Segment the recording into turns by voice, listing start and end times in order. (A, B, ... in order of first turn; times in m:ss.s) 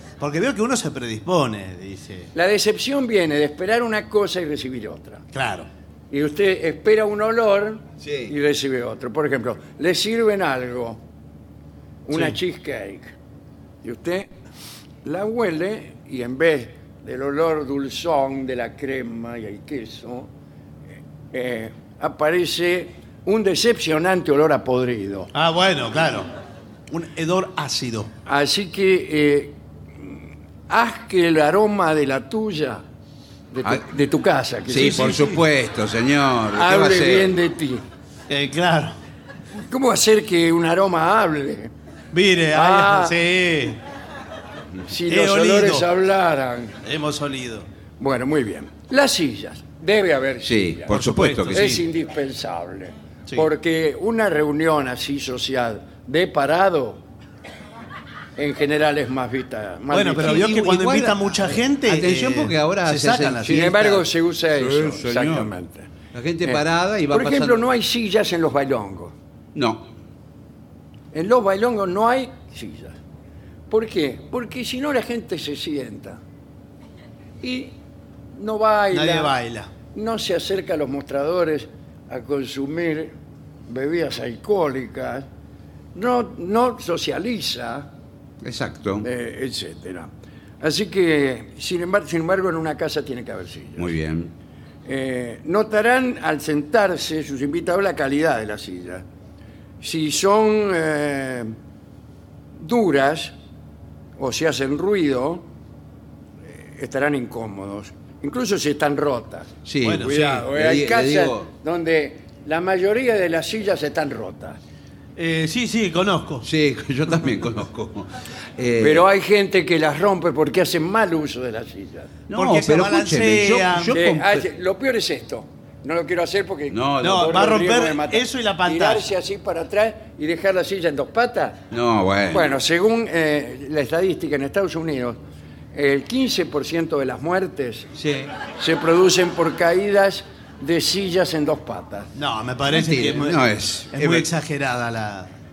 0:00.2-0:02.3 A
0:02.3-0:05.2 B
0:05.3-0:05.7 A
0:06.1-0:11.0 B
0:08.0-0:08.3 C
0:12.0-0:13.1 B
0:13.8-0:14.3 B
0:15.0-0:20.3 B
0:21.3-0:25.3 B
0:25.3-0:26.3 A
0:26.9-0:28.1 A
0:28.2-0:32.8 B
0:33.5-0:35.1 B
0:34.7-0:37.3 C
0:34.7-0:35.4 A
0:36.5-0:37.8 B
0:38.3-0:39.0 A
0:39.6-0:41.7 B
0:42.1-0:43.8 A
0:42.5-0:43.2 B
0:44.9-0:46.8 B
0:45.1-0:45.9 A
0:46.8-0:47.7 A
0:48.0-0:50.9 B
0:50.4-0:51.8 C
0:50.9-0:51.8 A
0:51.5-0:57.0 B
0:58.4-1:00.5 B
0:59.9-1:03.8 A
1:00.2-1:04.0 C
1:03.5-1:05.9 B
1:04.6-1:05.5 C
1:06.1-1:07.6 C
1:06.4-1:09.1 B
1:09.5-1:09.8 C
1:11.1-1:13.0 B
1:13.7-1:16.2 B
1:17.4-1:17.7 B
1:18.3-1:19.3 B
1:18.9-1:19.7 A
1:19.9-1:23.1 B
1:23.7-1:25.3 B
1:25.9-1:27.9 B
1:28.4-1:29.1 C
1:29.0-1:33.9 B
1:33.8-1:34.3 C
1:34.8-1:39.0 B
1:39.8-1:41.5 B
1:42.6-1:43.3 B
1:44.2-1:45.5 B
1:46.5-1:54.6 B
1:49.6-1:51.5 C
1:49.8-1:50.4 A
1:55.2-1:56.4 A
1:56.4-1:59.0 C
1:58.8-2:02.1 B
2:02.3-2:04.4 C
2:02.3-2:04.0 A
2:03.9-2:11.6 B
2:06.7-2:07.4 C
2:07.0-2:09.1 A
2:11.7-2:12.6 C
2:12.3-2:15.2 B
2:15.7-2:17.9 B
2:18.0-2:18.3 C
2:18.6-2:22.1 B
2:22.2-2:25.3 A
2:22.7-2:24.3 C